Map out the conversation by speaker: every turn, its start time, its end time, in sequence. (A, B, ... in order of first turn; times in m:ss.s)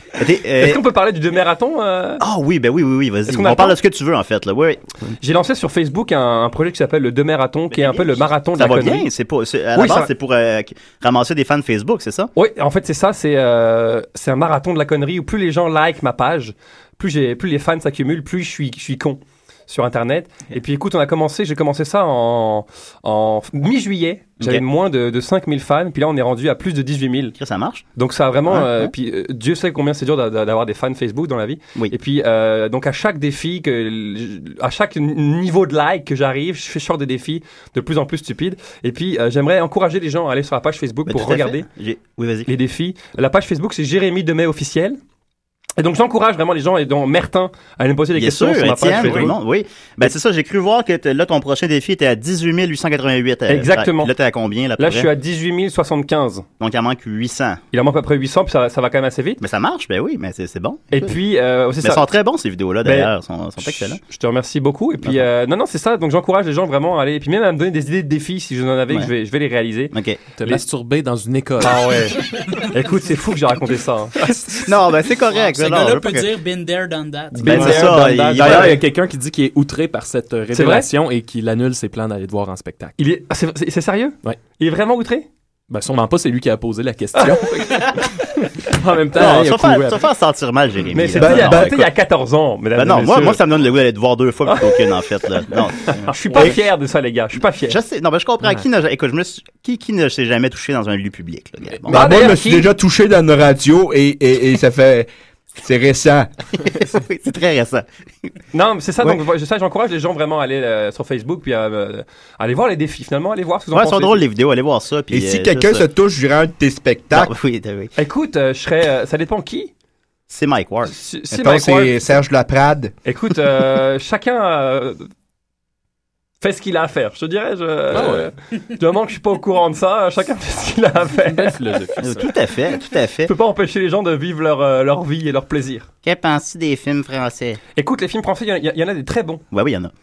0:00.2-0:00.8 A
0:00.6-0:02.2 B
0:02.2-0:05.1 A
0:03.3-0:03.8 B
0:05.2-0:09.1 B
0:07.7-0:12.3 A
0:09.8-0:10.1 B
0:12.4-0:27.4 B
0:27.4-0:27.8 A
0:28.0-0:41.7 B
0:28.5-0:28.9 A
0:41.1-0:42.5 A
0:42.5-0:45.0 B
0:45.8-0:49.4 B
0:48.2-0:55.1 A
0:53.5-0:54.1 B
0:54.8-0:56.5 B
0:56.6-0:57.6 A
0:57.7-0:59.4 B
0:59.4-1:01.1 A
1:00.9-1:02.1 B
1:01.8-1:04.0 A
1:02.8-1:09.9 B
1:09.9-1:10.2 A
1:10.4-1:12.0 C
1:11.6-1:14.3 B
1:14.5-1:16.3 A
1:15.3-1:17.6 D
1:17.3-1:18.8 B
1:17.4-1:18.8 A
1:17.5-1:22.9 C
1:20.5-1:20.9 B
1:23.0-1:25.3 B
1:25.7-1:30.0 C
1:27.2-1:27.6 B
1:29.1-1:31.8 A
1:30.9-1:33.4 B
1:31.2-1:31.8 E
1:32.8-1:36.6 A
1:34.4-1:35.1 B
1:35.8-1:37.8 B
1:37.6-1:42.3 A
1:41.9-1:42.7 B
1:41.9-1:45.1 E
1:45.6-1:46.3 E
1:46.6-1:48.3 A
1:48.5-1:54.2 B
1:53.7-1:55.8 A
1:55.1-1:57.3 E
1:57.1-1:57.9 A
1:58.0-1:59.7 B
2:00.3-2:00.9 A
2:00.9-2:02.0 B
2:01.3-2:02.9 E
2:03.0-2:05.0 B
2:06.4-2:11.6 B
2:07.9-2:08.3 C
2:11.3-2:12.3 C
2:12.0-2:13.3 A
2:13.3-2:15.9 B
2:16.0-2:17.6 A
2:17.8-2:19.4 B
2:19.5-2:19.9 A